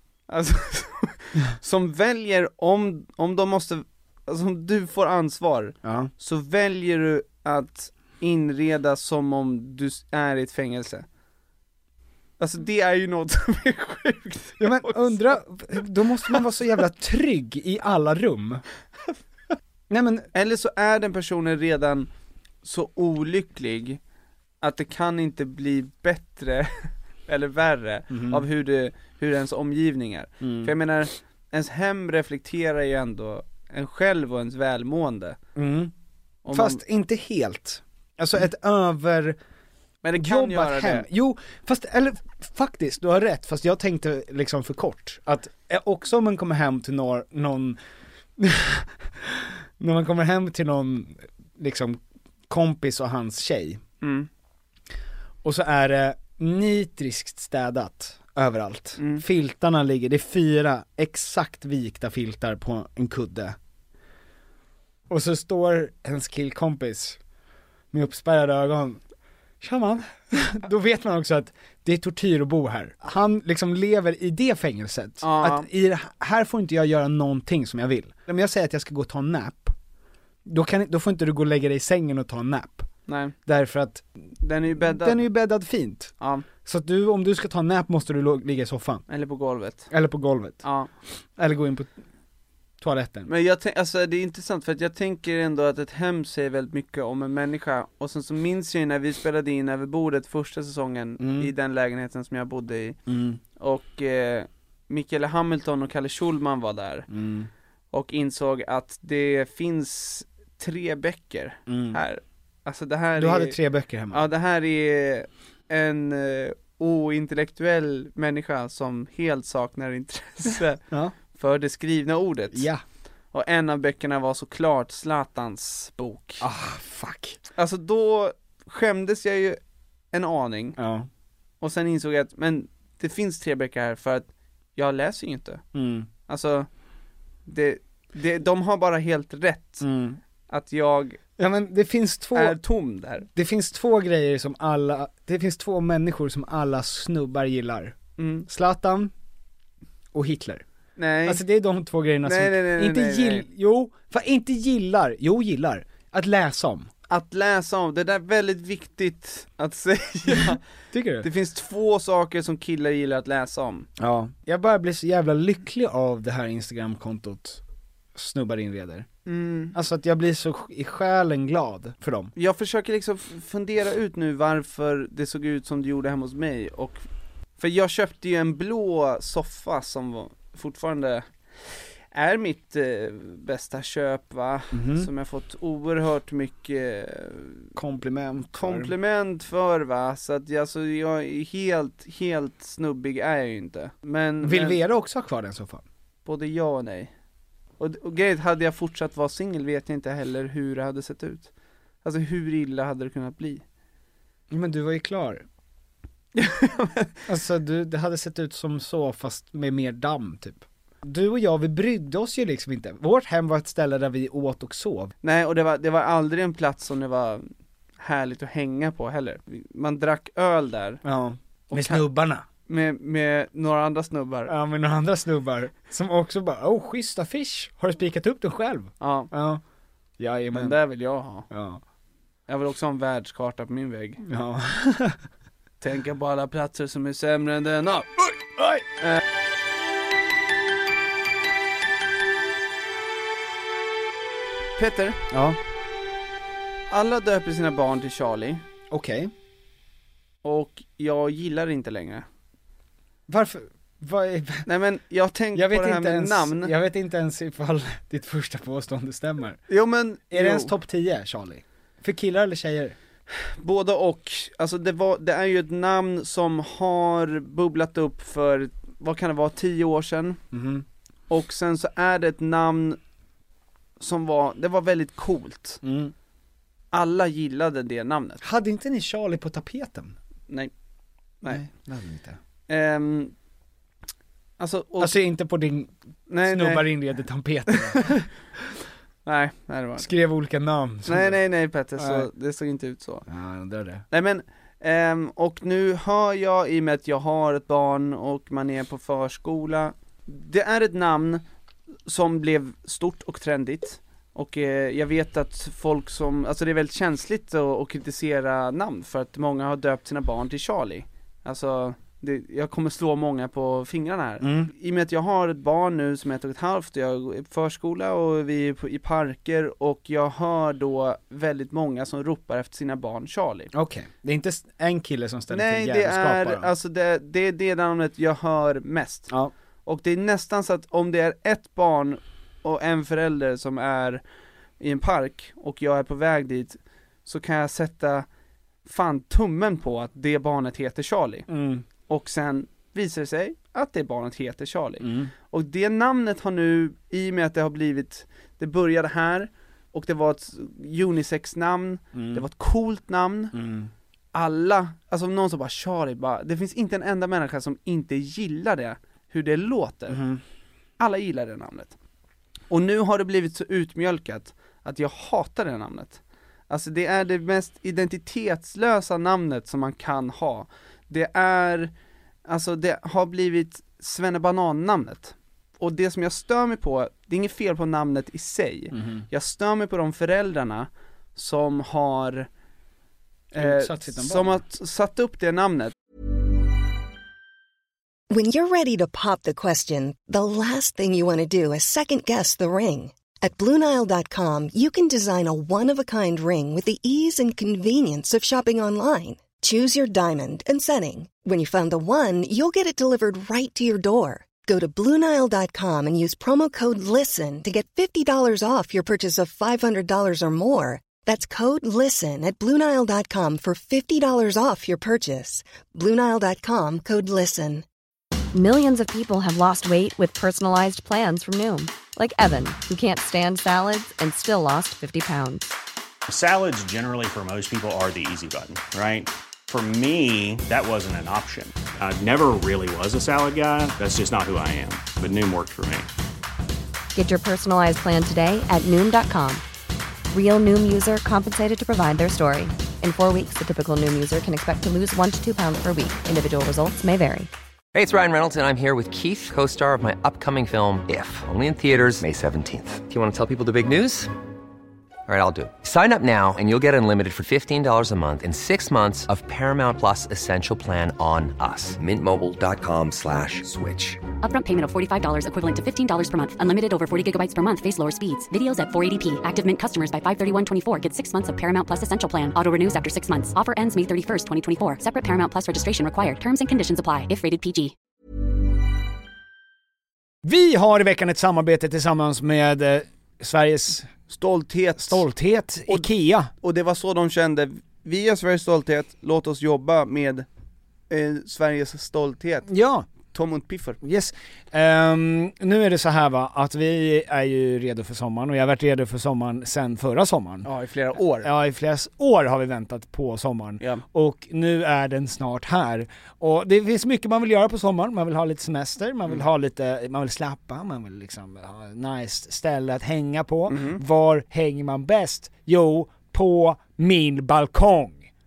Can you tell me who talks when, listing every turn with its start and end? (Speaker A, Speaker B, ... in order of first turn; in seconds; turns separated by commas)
Speaker A: 0.3-11.1, Speaker B: 5.8-6.1, Speaker A: 12.4-15.4, Speaker B: 14.6-18.6, Speaker B: 19.9-20.3, Speaker A: 20.3-22.1, Speaker A: 22.6-24.0, Speaker A: 24.6-35.4, Speaker B: 28.1-28.4, Speaker B: 30.4-30.7, Speaker B: 35.5-35.9, Speaker A: 36.5-36.8, Speaker B: 36.5-39.4, Speaker A: 40.0-41.1, Speaker B: 40.2-47.8, Speaker B: 48.4-53.8, Speaker A: 54.0-54.3, Speaker B: 55.4-63.6, Speaker A: 59.0-59.2, Speaker B: 65.1-67.2, Speaker B: 67.9-69.0, Speaker B: 69.6-79.7, Speaker A: 75.2-75.7, Speaker B: 80.5-82.9, Speaker A: 83.1-83.3, Speaker B: 83.5-84.0, Speaker A: 84.4-85.3, Speaker B: 84.7-86.1, Speaker A: 86.2-86.5, Speaker B: 86.7-89.0, Speaker A: 89.1-89.9, Speaker B: 89.9-90.6, Speaker A: 90.6-90.9, Speaker B: 91.4-91.9, Speaker B: 92.8-93.3, Speaker A: 93.3-103.0, Speaker B: 101.2-101.5, Speaker B: 103.1-103.4, Speaker A: 103.6-107.1, Speaker B: 107.1-107.5, Speaker A: 107.9-113.6, Speaker B: 111.7-112.0, Speaker B: 113.2-114.3, Speaker A: 114.1-120.8, Speaker B: 120.9-121.2, Speaker A: 121.3-122.7, Speaker B: 122.5-122.8, Speaker A: 123.3-126.4, Speaker B: 126.4-127.4, Speaker A: 127.6-129.6, Speaker A: 130.1-130.8, Speaker B: 130.8-131.1, Speaker A: 131.6-135.6, Speaker B: 135.7-136.1, Speaker A: 136.3-136.7, Speaker A: 137.5-139.9, Speaker B: 139.8-140.2, Speaker A: 140.5-141.2, Speaker B: 141.4-142.6, Speaker A: 142.3-143.3, Speaker B: 143.3-149.1, Speaker A: 148.2-148.5, Speaker B: 150.1-150.6, Speaker A: 151.0-151.4, Speaker B: 151.2-156.9, Speaker A: 152.2-153.5, Speaker A: 157.1-160.6, Speaker B: 160.9-161.3, Speaker A: 161.2-163.9, Speaker B: 164.0-167.6, Speaker B: 168.2-169.1, Speaker A: 169.3-169.8, Speaker B: 169.7-172.3, Speaker A: 172.3-177.0, Speaker A: 177.6-181.3, Speaker A: 182.1-187.7, Speaker B: 184.7-185.1, Speaker B: 187.8-188.9, Speaker A: 188.5-194.8, Speaker B: 194.4-195.8, Speaker A: 196.2-197.1, Speaker A: 197.8-201.5, Speaker A: 202.0-203.6, Speaker B: 204.5-205.4, Speaker A: 206.3-207.2, Speaker B: 207.3-215.1, Speaker A: 215.2-217.4, Speaker A: 218.0-221.0, Speaker B: 221.0-222.4, Speaker A: 221.7-222.1, Speaker A: 222.7-224.5, Speaker B: 224.5-229.6, Speaker A: 229.0-229.3, Speaker B: 230.2-230.8, Speaker A: 230.5-231.5, Speaker B: 231.5-231.8, Speaker A: 232.5-234.2, Speaker B: 234.2-235.2, Speaker A: 235.8-238.2, Speaker B: 238.6-238.8, Speaker A: 244.8-245.2, Speaker B: 245.3-245.6, Speaker A: 246.9-248.6, Speaker B: 248.9-249.3, Speaker A: 250.4-252.2, Speaker B: 253.3-254.7, Speaker A: 254.7-256.7, Speaker B: 255.5-259.6, Speaker A: 259.7-260.7, Speaker B: 260.3-263.0, Speaker A: 263.6-270.4, Speaker B: 270.5-270.9, Speaker A: 271.3-273.0, Speaker A: 274.0-275.8, Speaker B: 275.8-276.1, Speaker A: 276.9-278.4, Speaker B: 278.4-280.1, Speaker B: 281.5-282.4, Speaker A: 282.7-283.3, Speaker A: 284.6-285.2, Speaker B: 285.0-288.8, Speaker A: 286.3-286.9, Speaker A: 287.7-288.0, Speaker A: 289.3-290.1, Speaker B: 290.0-291.4, Speaker A: 291.1-293.2, Speaker B: 292.0-292.3, Speaker B: 293.3-294.0, Speaker A: 294.1-301.4, Speaker A: 302.1-323.7, Speaker B: 314.4-314.7, Speaker B: 323.7-326.7, Speaker A: 325.5-329.3, Speaker A: 329.9-334.2, Speaker A: 334.8-338.3, Speaker A: 338.9-341.5, Speaker B: 341.5-341.8, Speaker A: 342.1-353.6, Speaker B: 345.0-345.3, Speaker B: 352.1-352.4, Speaker B: 353.5-353.9, Speaker A: 354.3-360.2, Speaker B: 360.1-360.4, Speaker A: 361.0-361.9, Speaker A: 362.7-371.9, Speaker A: 372.5-382.5, Speaker B: 378.9-379.2, Speaker A: 383.5-385.9, Speaker B: 383.6-384.6, Speaker C: 388.3-417.9, Speaker D: 418.5-425.7, Speaker E: 426.3-436.1, Speaker D: 437.1-439.6, Speaker D: 440.3-447.5, Speaker F: 447.9-454.3, Speaker F: 455.3-464.2, Speaker G: 464.4-477.9, Speaker B: 480.4-484.1, Speaker A: 484.3-485.3, Speaker B: 485.0-486.5, Speaker A: 486.6-490.5, Speaker A: 491.1-492.7, Speaker B: 492.7-493.1, Speaker A: 493.3-494.0, Speaker B: 494.0-500.7, Speaker A: 500.6-501.5, Speaker B: 501.4-518.3, Speaker A: 513.7-514.0